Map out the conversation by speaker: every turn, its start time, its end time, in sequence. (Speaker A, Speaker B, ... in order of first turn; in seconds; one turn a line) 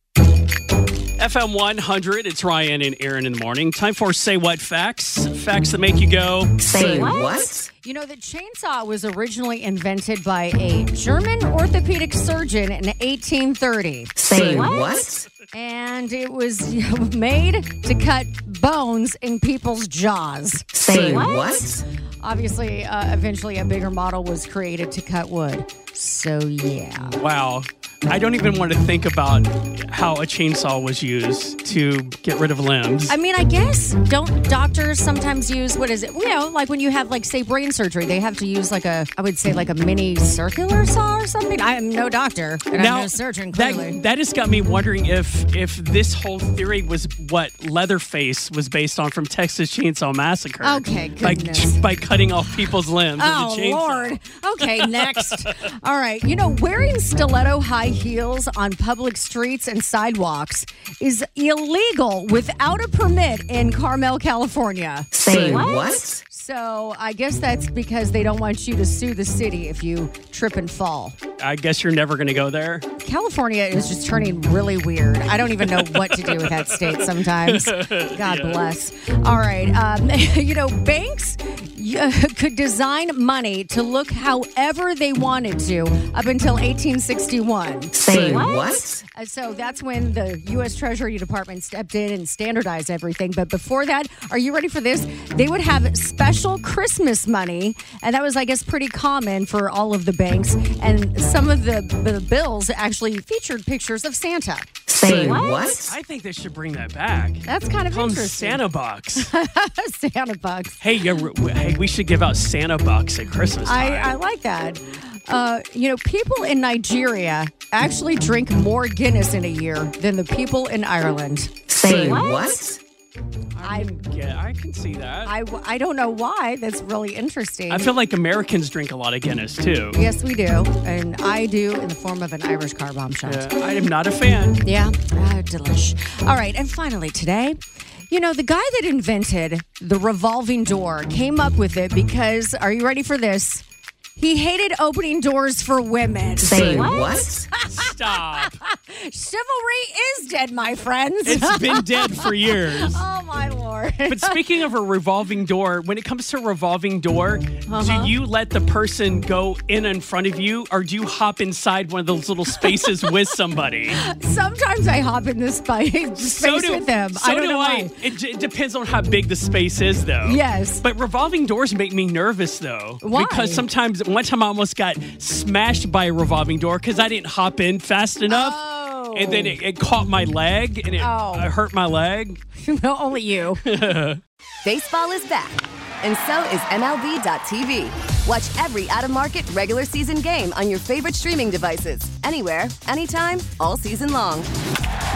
Speaker A: 1.2-6.6
Speaker B: 6.6-7.7
Speaker C: 7.8-14.4
Speaker B: 14.3-15.1
Speaker C: 15.5-21.3
Speaker B: 20.9-21.8
Speaker C: 22.2-27.2
Speaker A: 27.0-33.2
Speaker C: 33.1-44.0
Speaker A: 42.8-55.5
Speaker C: 50.6-51.8
Speaker C: 53.2-65.2
Speaker B: 65.2-66.2
Speaker C: 66.2-71.2
Speaker A: 71.4-72.8
Speaker C: 73.0-104.7
Speaker A: 75.7-78.6
Speaker B: 88.0-89.0
Speaker B: 104.9-105.8
Speaker A: 105.8-109.3
Speaker C: 107.5-108.6
Speaker C: 109.2-110.8
Speaker A: 110.8-114.2
Speaker C: 113.7-121.6
Speaker B: 121.8-122.8
Speaker C: 123.6-124.0
Speaker A: 123.6-125.3
Speaker C: 125.2-127.9
Speaker A: 127.7-130.0
Speaker C: 129.9-133.5
Speaker A: 133.2-134.6
Speaker C: 134.6-137.6
Speaker C: 138.1-143.6
Speaker C: 144.2-154.4
Speaker B: 146.6-147.2
Speaker A: 147.6-148.6
Speaker A: 151.2-153.0
Speaker A: 154.1-164.0
Speaker C: 157.7-158.1
Speaker C: 163.9-167.9
Speaker A: 166.3-182.4
Speaker C: 170.2-170.8
Speaker C: 173.0-173.7
Speaker C: 178.3-179.6
Speaker C: 181.0-181.5
Speaker C: 182.6-183.6
Speaker A: 183.7-184.2
Speaker D: 184.6-194.5